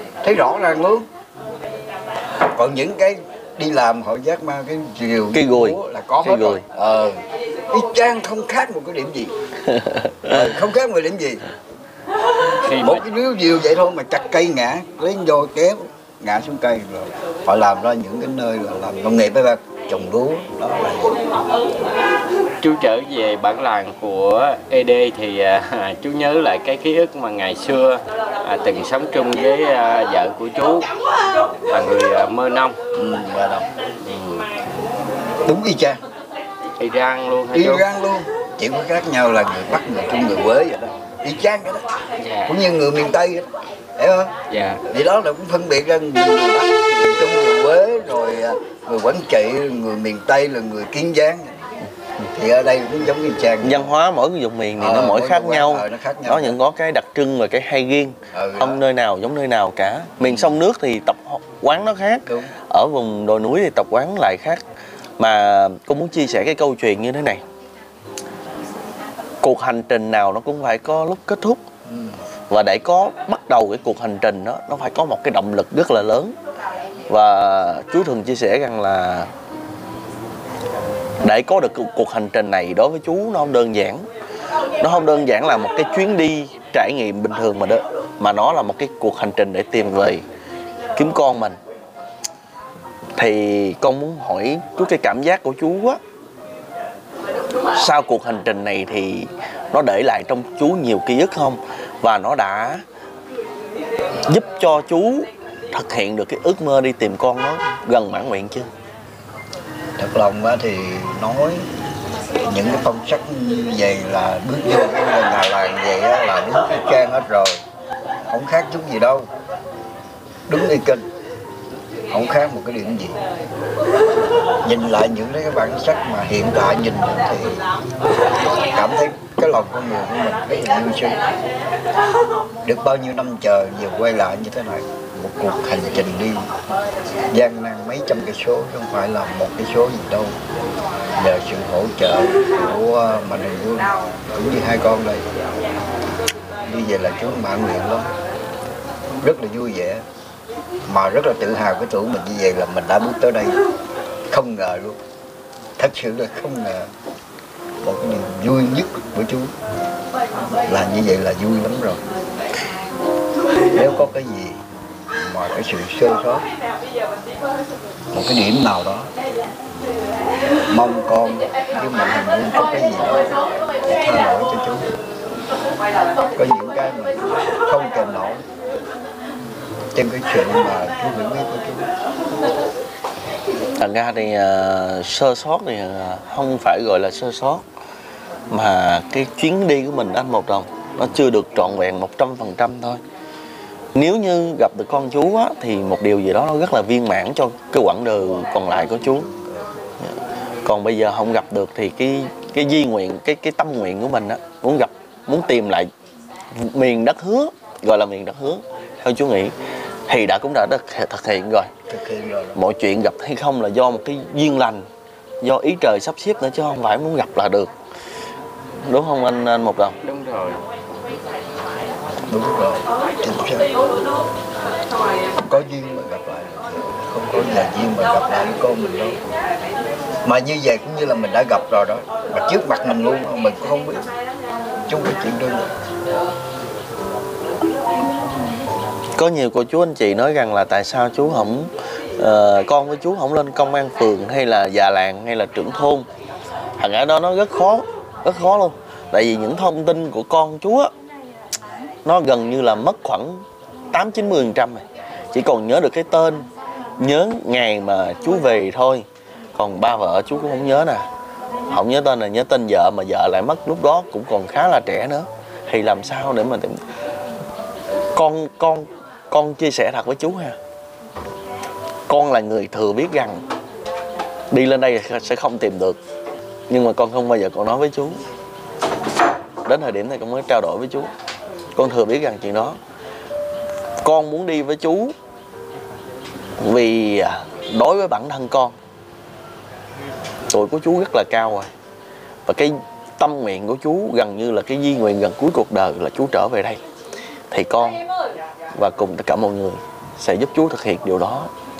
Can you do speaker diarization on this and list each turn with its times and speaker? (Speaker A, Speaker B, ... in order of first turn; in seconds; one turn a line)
Speaker A: 0.2-1.1
Speaker A: 2.4-9.3
Speaker B: 5.3-6.7
Speaker B: 9.6-10.4
Speaker A: 10.2-11.4
Speaker C: 12.5-13.0
Speaker A: 12.7-21.2
Speaker C: 22.6-30.9
Speaker C: 31.7-32.8
Speaker A: 32.9-33.7
Speaker C: 34.0-34.5
Speaker A: 35.4-36.0
Speaker C: 36.8-37.9
Speaker A: 37.5-51.7
Speaker C: 42.2-42.6
Speaker C: 44.5-44.8
Speaker A: 52.3-53.9
Speaker B: 53.6-64.6
Speaker A: 54.8-56.6
Speaker A: 58.3-58.8
Speaker B: 65.2-67.4
Speaker B: 69.4-71.6
Speaker A: 71.8-72.2
Speaker B: 72.5-76.3
Speaker B: 77.1-79.3
Speaker B: 81.2-84.0
Speaker B: 84.8-90.2
Speaker B: 91.0-91.6
Speaker B: 93.2-96.0
Speaker B: 97.7-102.8
Speaker B: 104.2-108.7
Speaker A: 110.0-111.7
Speaker A: 112.4-117.6
Speaker A: 118.3-119.3
Speaker A: 120.5-121.0
Speaker A: 122.1-123.2
Speaker A: 124.6-127.7
Speaker A: 128.6-131.2
Speaker A: 132.6-136.5
Speaker A: 137.3-140.4
Speaker A: 141.2-145.2
Speaker A: 146.6-148.1
Speaker A: 149.2-150.0
Speaker A: 150.8-153.6
Speaker A: 154.3-155.0
Speaker A: 155.8-156.9
Speaker A: 157.8-159.5
Speaker A: 160.7-162.0
Speaker A: 163.7-164.6
Speaker A: 165.2-166.5
Speaker A: 168.1-169.1
Speaker A: 170.7-174.9
Speaker A: 176.3-178.4
Speaker A: 179.9-181.9
Speaker B: 183.8-187.6
Speaker B: 188.5-193.0
Speaker B: 193.9-199.3
Speaker B: 200.6-205.9
Speaker B: 206.5-209.6
Speaker B: 210.1-211.7
Speaker A: 211.9-212.6
Speaker B: 212.5-214.8
Speaker B: 215.4-217.7
Speaker B: 218.8-220.0
Speaker C: 220.0-220.6
Speaker A: 222.3-223.7
Speaker A: 225.4-229.2
Speaker A: 230.2-234.1
Speaker A: 234.9-235.7
Speaker B: 239.2-246.1
Speaker B: 246.8-250.9
Speaker B: 252.0-256.5
Speaker B: 257.0-259.0
Speaker B: 259.6-261.1
Speaker B: 261.7-266.8
Speaker B: 268.1-270.6
Speaker B: 272.1-273.4
Speaker B: 274.5-276.0
Speaker B: 276.7-278.2
Speaker B: 279.6-281.1
Speaker B: 281.8-282.8
Speaker B: 284.0-285.1
Speaker B: 286.6-288.8
Speaker B: 290.5-291.7
Speaker B: 292.4-296.8
Speaker B: 297.5-298.0
Speaker B: 298.8-301.5